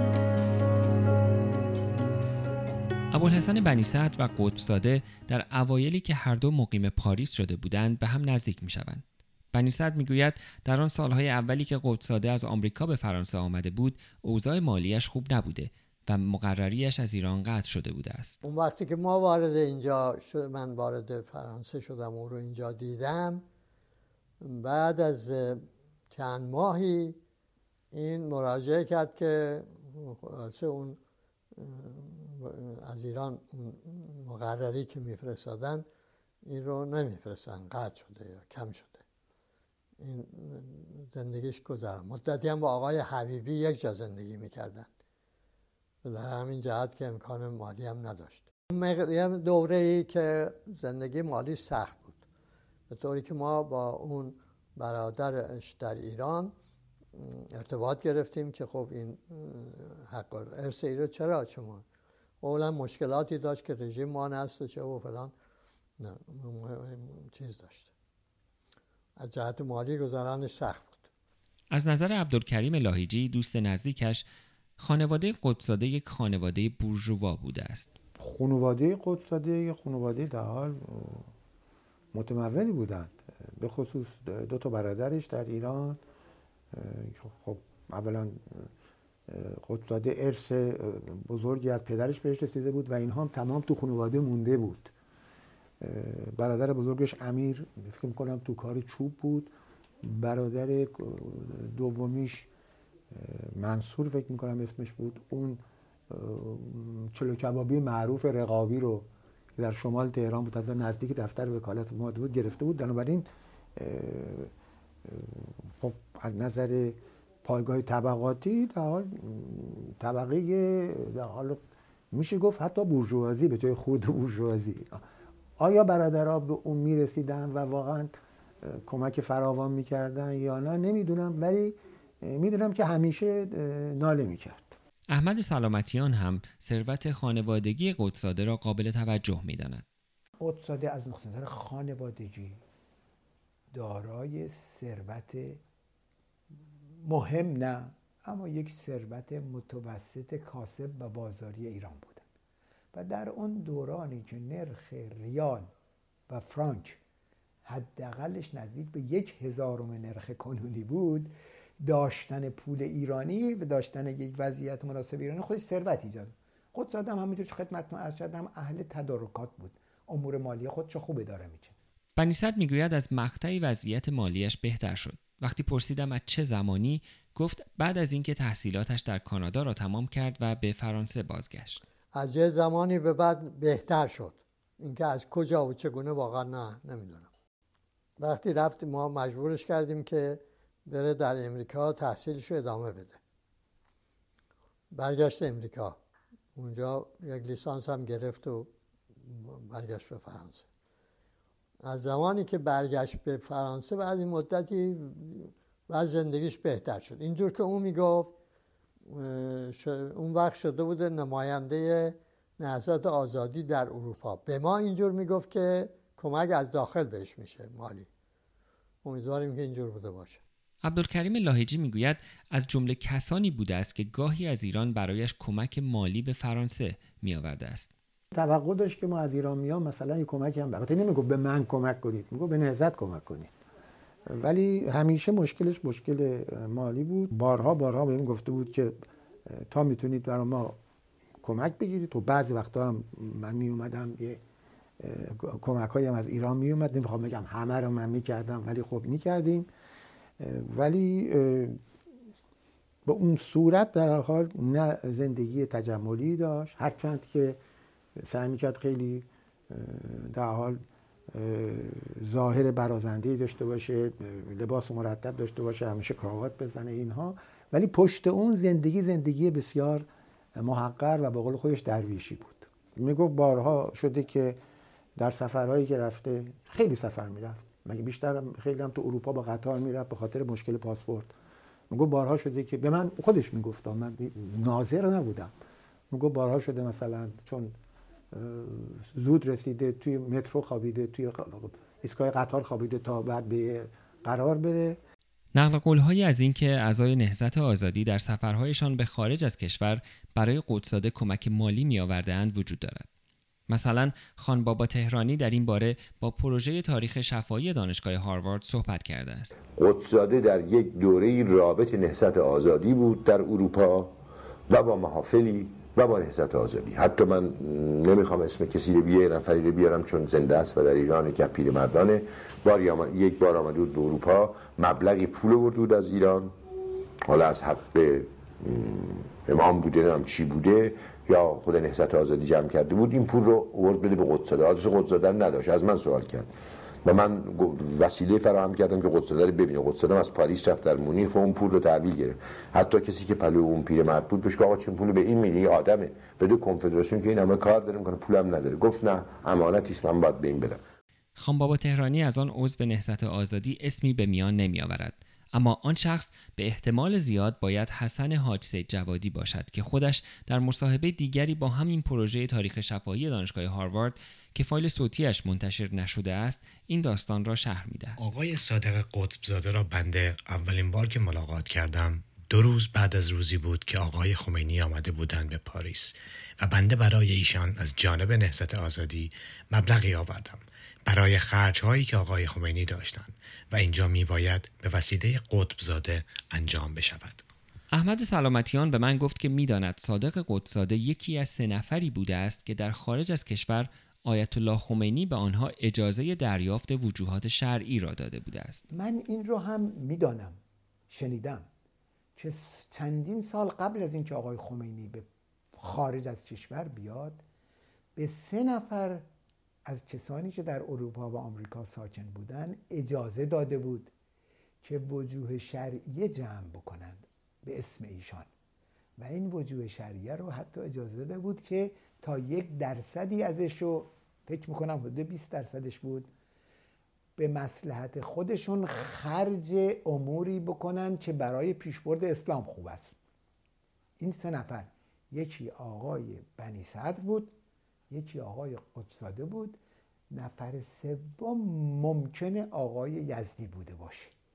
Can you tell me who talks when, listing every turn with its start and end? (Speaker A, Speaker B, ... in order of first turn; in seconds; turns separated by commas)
Speaker A: 3.1-18.4, Speaker B: 18.4-23.4, Speaker B: 24.4-27.2, Speaker B: 27.9-31.0, Speaker B: 31.6-35.9, Speaker B: 36.5-39.0, Speaker B: 40.0-44.9, Speaker B: 46.0-52.2, Speaker B: 52.9-56.5, Speaker B: 57.1-61.8, Speaker B: 62.4-65.3, Speaker B: 66.0-67.9, Speaker B: 69.2-71.1, Speaker A: 71.7-74.2, Speaker A: 74.8-77.9, Speaker C: 78.2-81.3, Speaker C: 82.1-86.0, Speaker C: 86.7-88.7, Speaker C: 89.3-94.9, Speaker C: 95.8-102.5, Speaker C: 103.1-114.5, Speaker C: 115.0-121.6, Speaker C: 122.1-125.0, Speaker C: 125.6-134.8, Speaker A: 135.1-139.8, Speaker D: 140.4-142.6, Speaker D: 143.7-145.6, Speaker D: 147.0-152.2, Speaker D: 152.9-155.7, Speaker D: 156.3-157.0, Speaker D: 157.6-171.7, Speaker A: 172.2-181.8, Speaker B: 182.1-187.3, Speaker B: 188.2-193.2, Speaker B: 194.9-196.0, Speaker B: 196.6-200.7, Speaker B: 201.8-208.3, Speaker B: 209.1-218.1, Speaker B: 219.0-220.4, Speaker A: 220.8-227.9, Speaker C: 228.3-233.5, Speaker C: 234.3-240.8, Speaker C: 241.4-244.4, Speaker C: 245.0-249.7, Speaker C: 250.4-251.8, Speaker C: 253.0-257.6, Speaker C: 258.1-274.6, Speaker C: 275.1-281.3, Speaker C: 281.9-285.5, Speaker C: 286.1-287.8, Speaker C: 288.3-295.0, Speaker A: 295.5-303.1, Speaker A: 303.7-309.5, Speaker E: 309.7-314.1, Speaker E: 314.7-326.5, Speaker E: 327.3-336.5, Speaker E: 337.0-350.8, Speaker A: 351.4-368.2, Speaker F: 368.2-387.4, Speaker A: 387.9-398.8, Speaker D: 398.9-400.6, Speaker D: 401.1-401.7, Speaker D: 402.4-407.4, Speaker D: 408.1-409.2, Speaker D: 409.9-414.1, Speaker D: 414.8-418.5, Speaker D: 419.2-426.3, Speaker D: 427.4-433.1, Speaker D: 434.2-437.5, Speaker D: 438.1-439.8, Speaker D: 440.3-444.3